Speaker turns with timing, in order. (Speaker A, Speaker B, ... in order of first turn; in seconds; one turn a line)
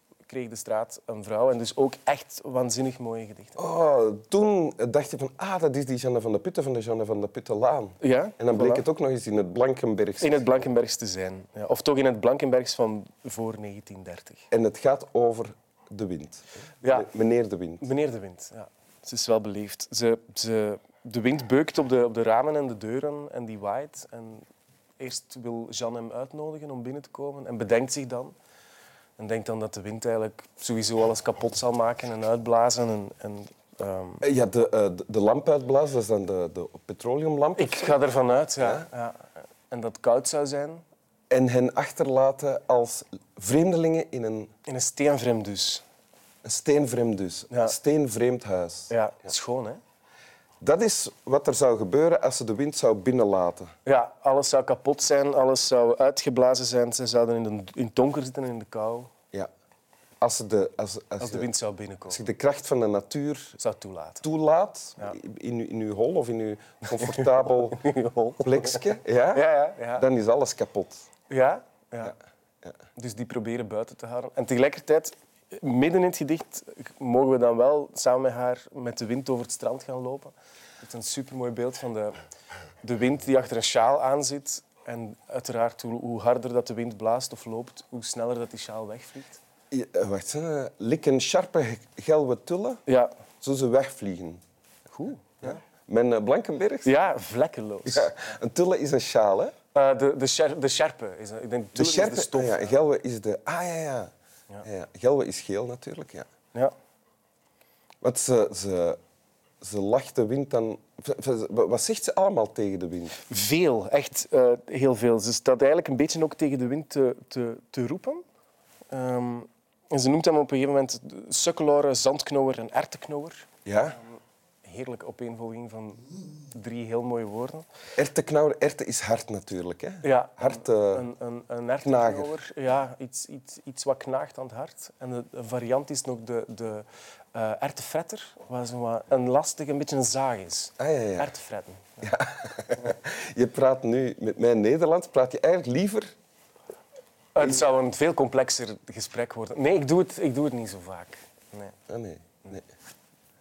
Speaker A: 0.2-3.5
Speaker B: 3.6-10.6
Speaker A: 8.0-8.8
Speaker A: 10.2-14.4
Speaker B: 14.5-17.9
Speaker A: 16.8-17.1
Speaker A: 17.8-24.4
Speaker A: 25.0-28.3
Speaker A: 29.2-34.2
Speaker B: 34.2-37.9
Speaker A: 37.6-40.8
Speaker B: 38.6-38.9
Speaker B: 41.3-44.5
Speaker A: 44.7-45.8
Speaker B: 46.4-49.3
Speaker A: 47.5-47.8
Speaker A: 48.9-49.8
Speaker B: 50.6-53.7
Speaker A: 53.9-59.1
Speaker B: 60.2-61.5
Speaker A: 61.2-62.2
Speaker B: 62.1-63.6
Speaker A: 63.6-64.2
Speaker B: 64.2-67.8
Speaker A: 66.9-70.1
Speaker B: 68.4-71.1
Speaker A: 71.3-72.2
Speaker A: 73.0-82.1
Speaker A: 82.8-89.4
Speaker B: 89.7-92.8
Speaker A: 92.9-93.1
Speaker B: 93.4-94.4
Speaker A: 94.9-95.6
Speaker B: 95.4-97.0
Speaker A: 96.8-98.1
Speaker B: 97.9-99.5
Speaker A: 99.7-102.8
Speaker B: 101.8-104.1
Speaker B: 104.6-106.3
Speaker B: 108.0-109.0
Speaker B: 109.6-113.2
Speaker A: 113.3-118.2
Speaker A: 118.9-127.6
Speaker B: 123.6-124.0
Speaker B: 128.0-131.1
Speaker A: 130.0-142.0
Speaker B: 131.8-132.3
Speaker B: 140.8-141.3
Speaker B: 142.0-146.1
Speaker A: 147.3-151.8
Speaker B: 151.9-152.6